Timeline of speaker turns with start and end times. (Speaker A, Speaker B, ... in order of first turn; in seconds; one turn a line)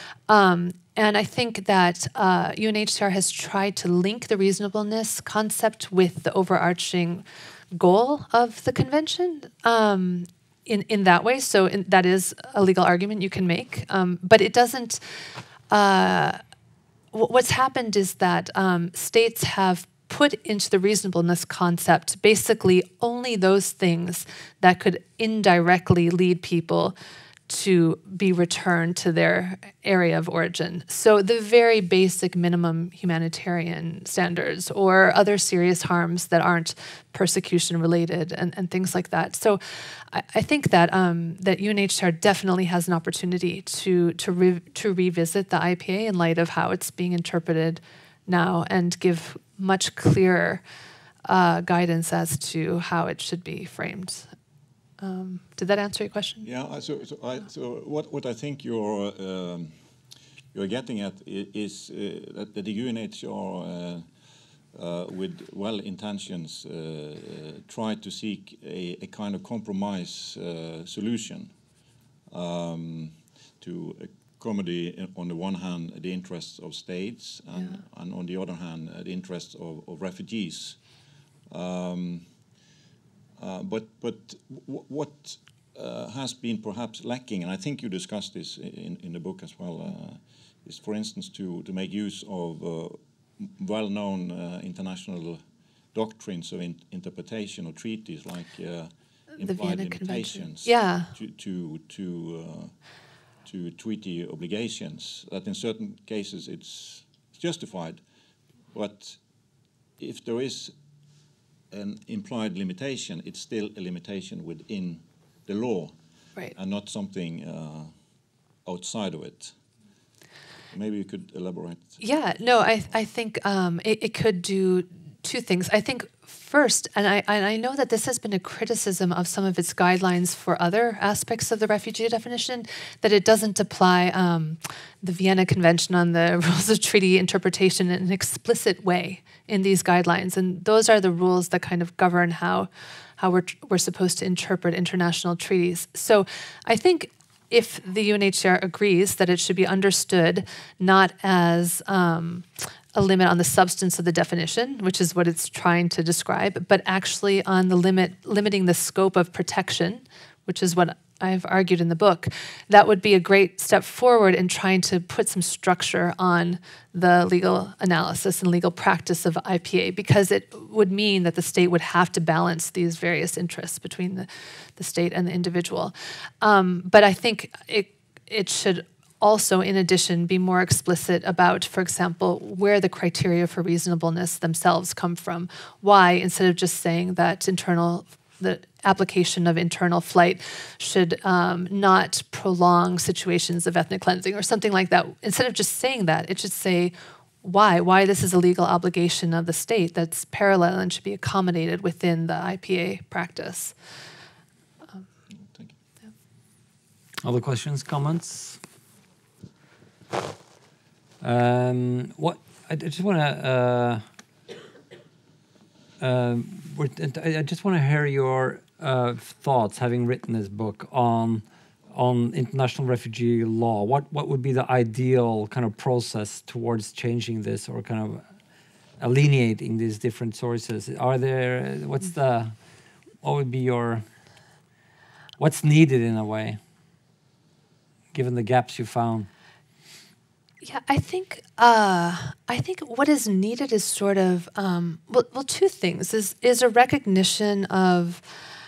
Speaker A: 0.3-15.0
Speaker A: 15.7-16.4
Speaker A: 17.1-27.0
Speaker A: 27.5-50.6
Speaker A: 51.2-54.3
Speaker A: 55.0-56.5
Speaker B: 56.4-59.7
Speaker B: 60.5-64.1
Speaker B: 64.7-71.6
Speaker B: 72.3-82.3
Speaker A: 77.5-77.8
Speaker B: 83.4-102.9
Speaker A: 99.4-101.1
Speaker B: 103.4-108.1
Speaker B: 108.7-109.2
Speaker B: 110.0-110.7
Speaker B: 111.7-116.0
Speaker B: 116.5-117.9
Speaker B: 118.7-119.5
Speaker B: 120.7-122.0
Speaker A: 122.0-203.7
Speaker B: 205.4-205.7
Speaker C: 207.2-208.6
Speaker C: 211.2-214.0
Speaker C: 216.0-228.2
Speaker C: 229.0-232.6
Speaker C: 233.2-234.1
Speaker C: 235.4-236.6
Speaker C: 238.1-239.3
Speaker A: 240.6-248.2